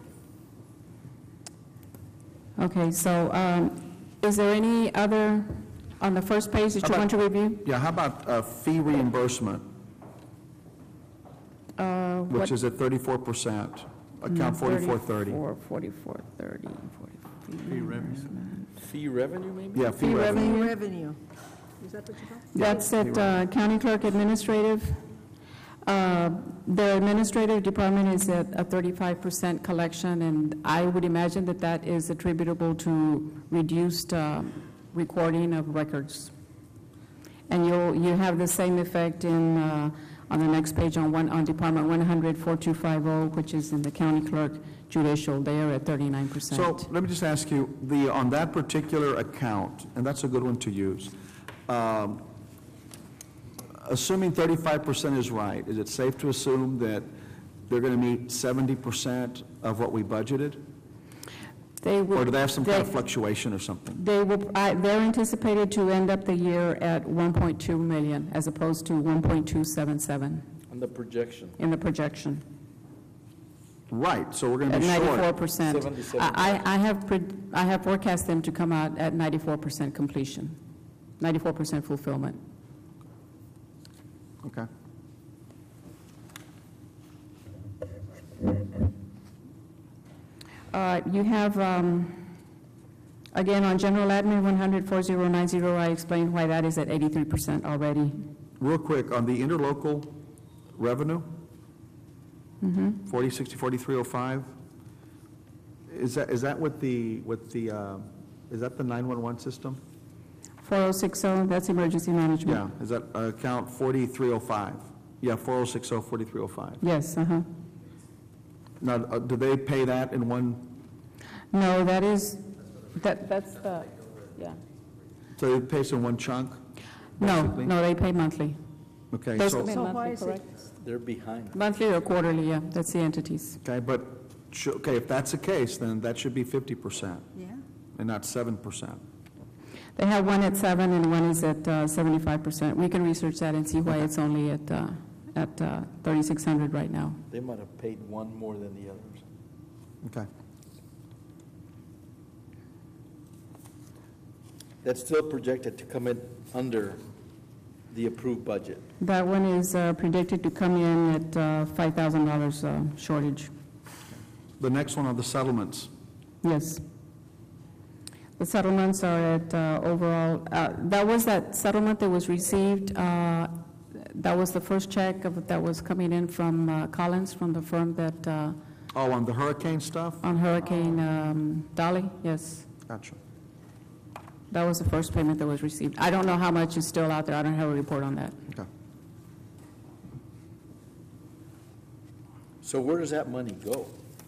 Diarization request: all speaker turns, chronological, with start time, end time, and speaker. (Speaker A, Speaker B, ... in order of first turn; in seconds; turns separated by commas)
Speaker A: 2.6-7.6, Speaker B: 6.8-7.1, Speaker B: 7.6-9.6, Speaker A: 11.8-12.5, Speaker B: 12.3-15.4, Speaker A: 14.2-18.7, Speaker C: 17.7-19.9, Speaker B: 19.7-20.5, Speaker A: 20.0-20.7, Speaker D: 20.0-21.2, Speaker D: 21.8-22.5, Speaker A: 22.5-25.1, Speaker B: 22.5-23.4, Speaker A: 25.8-36.3, Speaker A: 37.5-46.9, Speaker B: 46.5-51.1, Speaker B: 51.7-52.2, Speaker B: 53.8-57.1, Speaker B: 57.6-60.6, Speaker A: 61.8-63.0, Speaker B: 62.1-64.0, Speaker A: 63.9-70.5, Speaker C: 70.7-71.6, Speaker A: 71.6-72.4, Speaker B: 73.9-75.3, Speaker A: 74.7-80.6, Speaker C: 75.6-76.7, Speaker A: 81.2-82.4, Speaker B: 84.4-84.7, Speaker A: 90.7-92.3, Speaker A: 93.3-98.2, Speaker B: 98.6-100.1, Speaker B: 100.8-101.3, Speaker A: 102.6-103.0, Speaker B: 103.0-104.5, Speaker B: 105.9-109.8, Speaker A: 110.6-112.6, Speaker B: 112.4-116.8, Speaker A: 116.8-117.5, Speaker B: 118.8-120.8, Speaker A: 121.5-124.6, Speaker B: 125.3-126.6, Speaker A: 127.2-128.6, Speaker B: 127.2-127.7, Speaker B: 129.1-129.8, Speaker A: 129.3-130.4, Speaker D: 129.6-130.4, Speaker C: 130.8-131.6, Speaker A: 131.5-133.6, Speaker B: 133.6-137.2, Speaker B: 137.9-139.0, Speaker A: 139.9-147.2, Speaker C: 147.3-149.2, Speaker B: 150.0-150.3, Speaker C: 154.8-157.0, Speaker C: 157.9-158.8, Speaker A: 159.0-163.5, Speaker B: 164.6-165.9, Speaker A: 166.4-166.8, Speaker A: 168.4-178.6, Speaker B: 178.9-180.2, Speaker A: 180.2-182.7, Speaker B: 182.9-183.2, Speaker A: 184.5-188.4, Speaker C: 192.6-193.9